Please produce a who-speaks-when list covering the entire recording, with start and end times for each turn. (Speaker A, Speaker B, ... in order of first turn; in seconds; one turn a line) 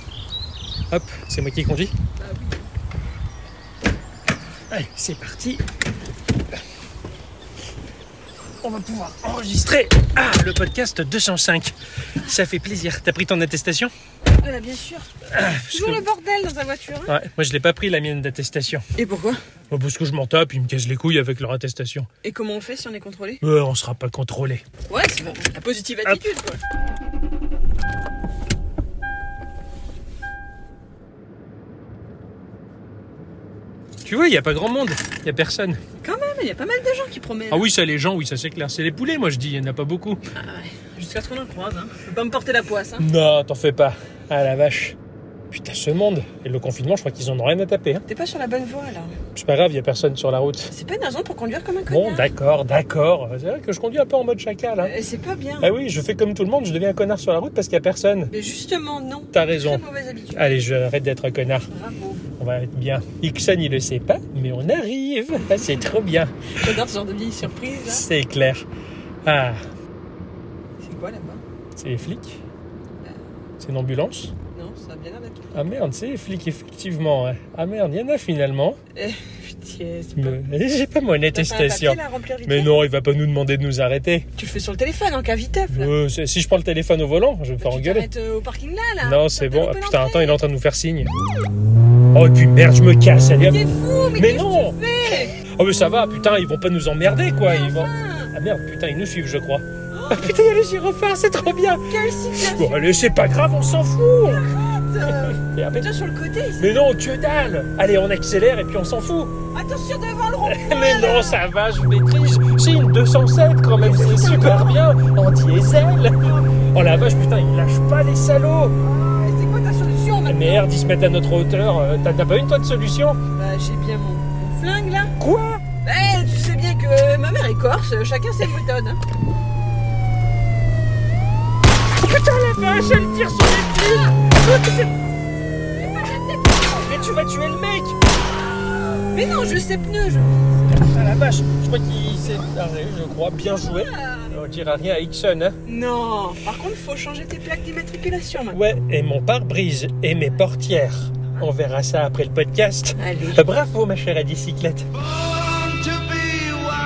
Speaker A: 0.9-1.9
Speaker B: 2.2-2.6
Speaker A: 4.7-5.6
Speaker A: 8.6-11.7
Speaker A: 12.2-13.9
Speaker B: 14.4-17.1
Speaker A: 15.3-16.0
Speaker A: 17.1-18.9
Speaker B: 18.9-19.4
Speaker A: 19.7-22.1
Speaker B: 22.2-23.4
Speaker A: 23.4-24.6
Speaker B: 24.9-26.6
Speaker A: 34.0-35.8
Speaker B: 36.0-37.7
Speaker A: 37.5-40.2
Speaker B: 40.3-43.0
Speaker A: 43.0-45.0
Speaker A: 45.5-48.0
Speaker B: 48.1-49.1
Speaker A: 49.3-50.7
Speaker B: 50.7-52.3
Speaker A: 51.9-54.9
Speaker B: 54.8-55.7
Speaker A: 55.6-58.3
Speaker B: 58.3-60.6
Speaker A: 59.3-59.8
Speaker A: 60.3-61.7
Speaker B: 61.7-62.2
Speaker A: 62.4-66.6
Speaker B: 66.5-68.0
Speaker A: 67.8-68.7
Speaker A: 69.2-69.6
Speaker B: 70.8-71.4
Speaker A: 71.8-72.4
Speaker A: 73.6-74.3
Speaker B: 74.5-75.6
Speaker A: 75.5-78.8
Speaker B: 79.0-80.4
Speaker A: 80.2-84.3
Speaker B: 81.3-82.8
Speaker B: 84.3-85.9
Speaker A: 85.7-88.1
Speaker B: 87.6-90.4
Speaker A: 89.0-91.1
Speaker A: 92.1-94.8
Speaker B: 93.4-95.3
Speaker A: 95.4-104.5
Speaker B: 97.4-98.3
Speaker B: 99.9-100.3
Speaker B: 101.8-102.9
Speaker B: 104.2-106.7
Speaker A: 105.1-105.9
Speaker A: 106.6-109.3
Speaker B: 109.5-111.4
Speaker A: 110.5-118.8
Speaker B: 113.8-114.8
Speaker B: 116.2-117.1
Speaker B: 118.8-120.7
Speaker A: 120.3-123.2
Speaker B: 123.3-125.1
Speaker A: 125.2-125.6
Speaker B: 125.8-129.0
Speaker A: 132.0-133.8
Speaker B: 133.3-134.9
Speaker B: 135.7-137.2
Speaker A: 136.8-137.9
Speaker B: 139.1-140.8
Speaker A: 140.7-145.6
Speaker B: 143.6-144.3
Speaker B: 145.7-148.6
Speaker A: 148.5-156.5
Speaker B: 153.0-153.4